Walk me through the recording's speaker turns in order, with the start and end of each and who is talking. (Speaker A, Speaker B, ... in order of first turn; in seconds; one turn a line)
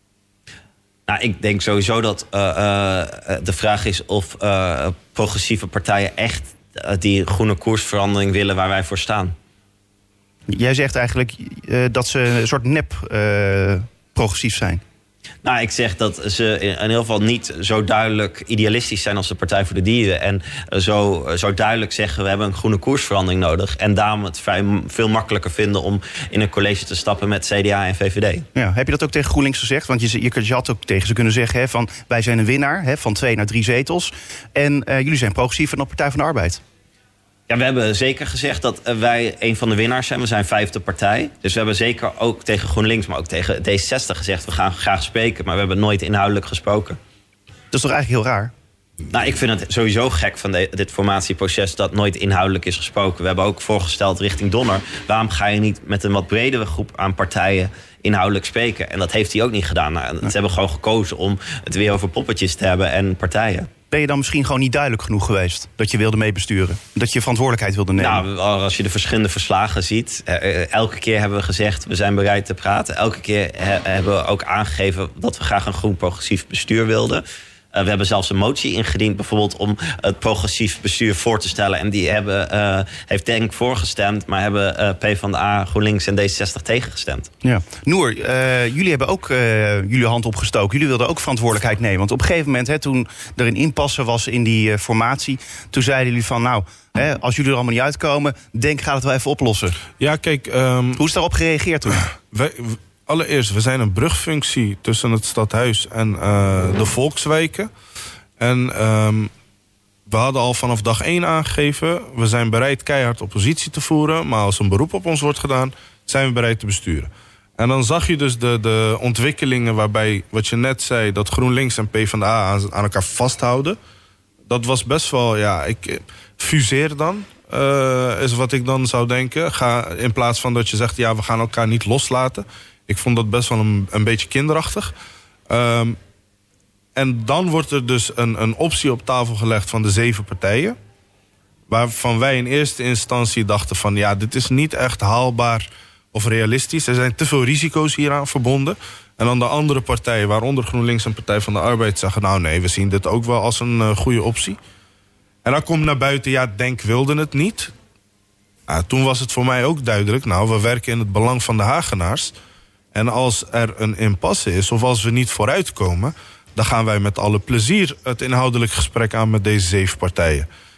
Speaker A: 1.1-9.3
Speaker B: 10.5-14.8
Speaker A: 15.4-28.5
Speaker B: 28.6-36.6
Speaker A: 37.5-47.0
Speaker B: 47.7-48.5
Speaker A: 49.1-63.7
Speaker B: 63.9-68.2
Speaker A: 68.0-87.3
Speaker B: 87.4-99.8
Speaker C: 100.0-101.0
Speaker B: 101.0-102.0
Speaker C: 102.1-107.7
Speaker C: 108.4-109.3
Speaker C: 110.1-123.8
Speaker C: 124.5-134.9
Speaker C: 135.5-136.0
Speaker C: 137.0-140.8
Speaker C: 141.7-154.6
Speaker C: 155.4-157.7
Speaker C: 158.7-162.3
Speaker C: 162.9-170.5